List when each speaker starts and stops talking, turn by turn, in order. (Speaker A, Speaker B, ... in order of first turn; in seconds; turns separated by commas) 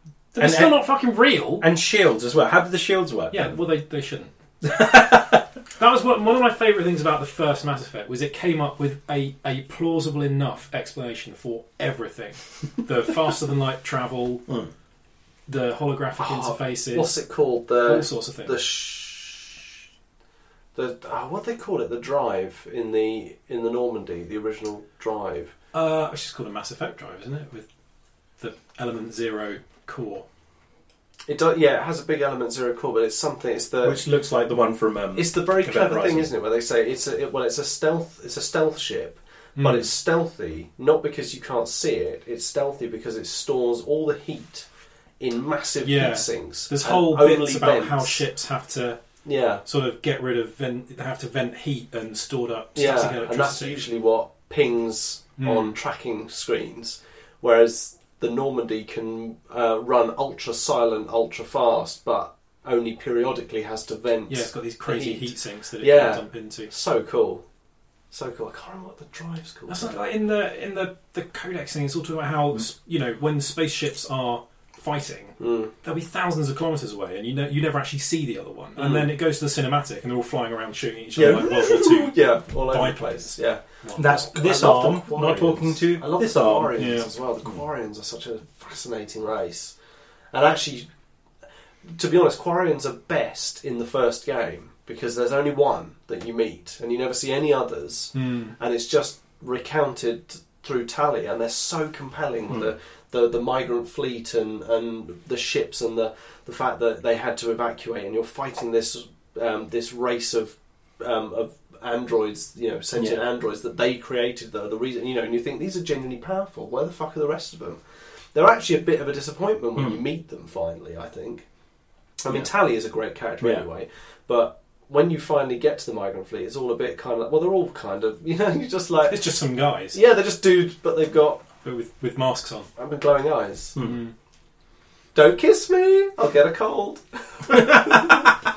Speaker A: 0.3-1.7, Speaker B: 0.4-0.8, Speaker B: 1.6-3.5, Speaker A: 3.3-4.3, Speaker B: 4.6-5.5, Speaker A: 5.8-14.4, Speaker A: 15.5-17.2, Speaker C: 16.2-19.6, Speaker A: 17.8-18.6, Speaker C: 20.7-25.5, Speaker A: 25.7-27.7, Speaker A: 28.4-30.2, Speaker C: 31.3-34.0, Speaker B: 33.8-36.3, Speaker C: 35.1-44.6, Speaker A: 39.5-39.9, Speaker C: 45.2-48.2, Speaker A: 45.8-49.0, Speaker C: 49.2-49.6, Speaker A: 49.6-53.8, Speaker C: 52.7-67.4, Speaker A: 55.4-55.7, Speaker A: 64.3-66.7, Speaker C: 68.1-70.0, Speaker A: 69.7-82.2, Speaker C: 75.4-75.7, Speaker C: 78.8-79.1, Speaker C: 81.2-89.7, Speaker A: 82.7-83.3, Speaker A: 83.8-84.1, Speaker B: 84.0-86.7, Speaker A: 86.8-87.1, Speaker C: 90.3-90.9, Speaker C: 91.9-117.8, Speaker A: 98.1-98.5, Speaker C: 118.3-121.4, Speaker C: 122.2-129.2, Speaker A: 129.1-130.0, Speaker C: 129.9-131.4, Speaker A: 131.6-132.7, Speaker C: 132.8-133.8, Speaker B: 133.8-134.0, Speaker A: 133.8-134.1, Speaker C: 135.1-138.4